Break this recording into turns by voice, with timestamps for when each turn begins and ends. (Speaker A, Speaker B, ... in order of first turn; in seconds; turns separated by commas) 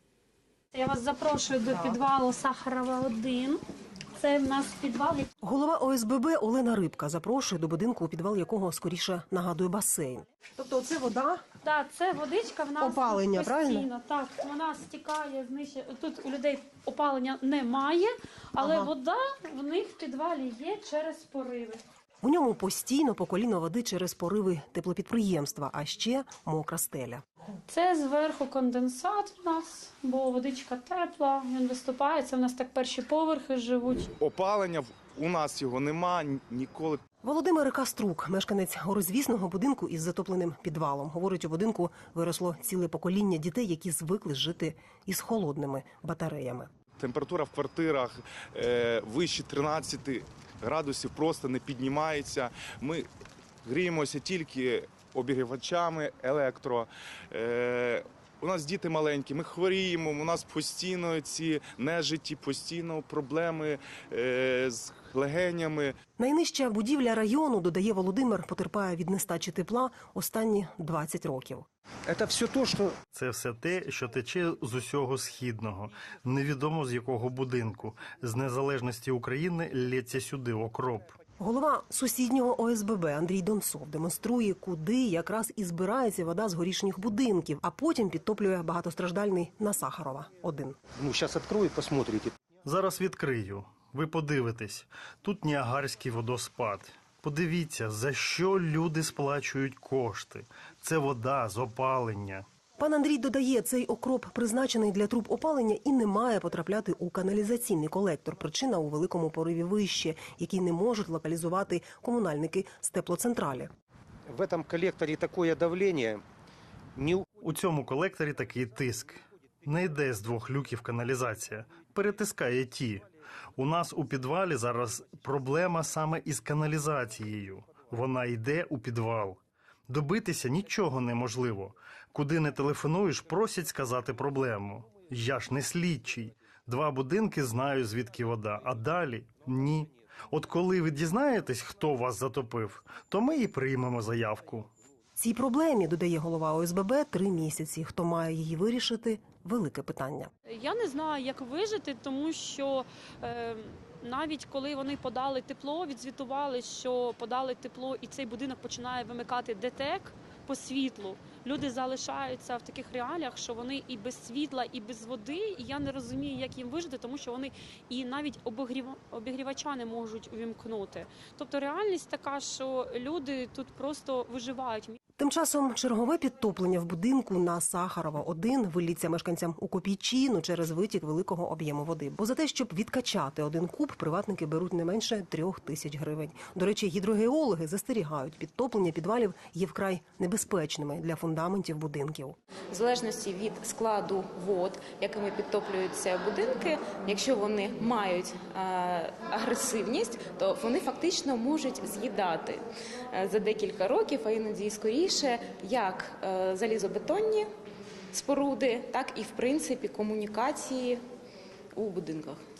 Speaker A: 0.7-3.6, Speaker A: 4.2-5.3, Speaker B: 5.4-11.4, Speaker A: 11.6-21.8, Speaker B: 12.8-13.9, Speaker B: 18.6-18.9, Speaker B: 22.2-27.2, Speaker A: 27.7-34.1, Speaker C: 34.2-37.0, Speaker B: 37.2-46.7, Speaker C: 47.0-53.1, Speaker C: 53.6-66.0, Speaker B: 66.2-71.7, Speaker D: 72.1-72.9, Speaker E: 73.1-81.2, Speaker B: 81.4-90.8, Speaker D: 91.0-92.3, Speaker E: 92.7-102.5, Speaker B: 102.8-113.7, Speaker D: 114.3-116.2, Speaker D: 117.0-117.2, Speaker E: 117.4-144.7, Speaker B: 145.2-150.3, Speaker A: 150.5-175.0, Speaker B: 175.2-192.4, Speaker F: 192.7-207.5, Speaker F: 208.1-211.0, Speaker F: 211.8-212.4